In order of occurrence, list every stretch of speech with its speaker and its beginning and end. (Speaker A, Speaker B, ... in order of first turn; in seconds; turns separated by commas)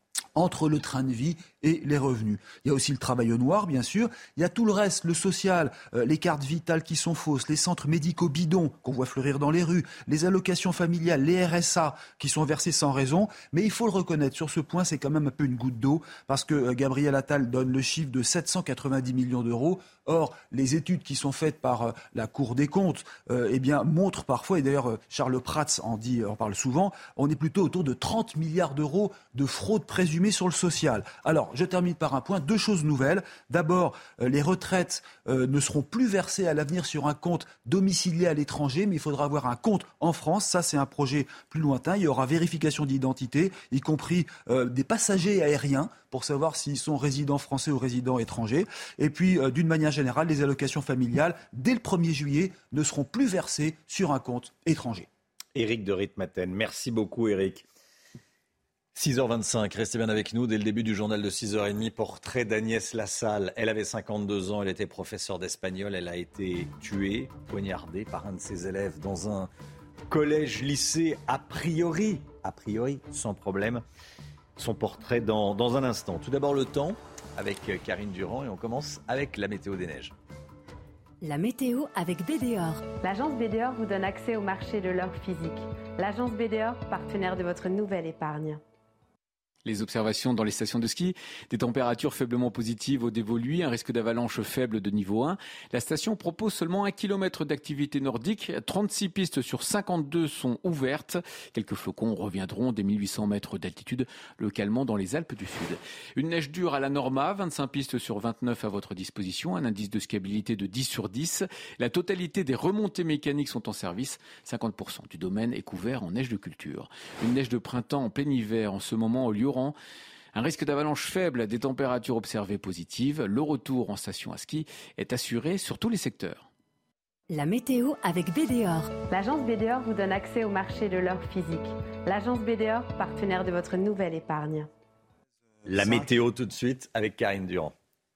Speaker A: 0.3-55.1, Speaker B: 55.5-57.7, Speaker B: 59.0-69.5, Speaker B: 70.1-73.8, Speaker B: 74.6-80.1, Speaker C: 81.2-82.9, Speaker D: 82.9-88.6, Speaker E: 89.7-119.7, Speaker E: 120.3-126.5, Speaker C: 127.3-129.0, Speaker D: 129.0-134.7, Speaker B: 135.7-137.8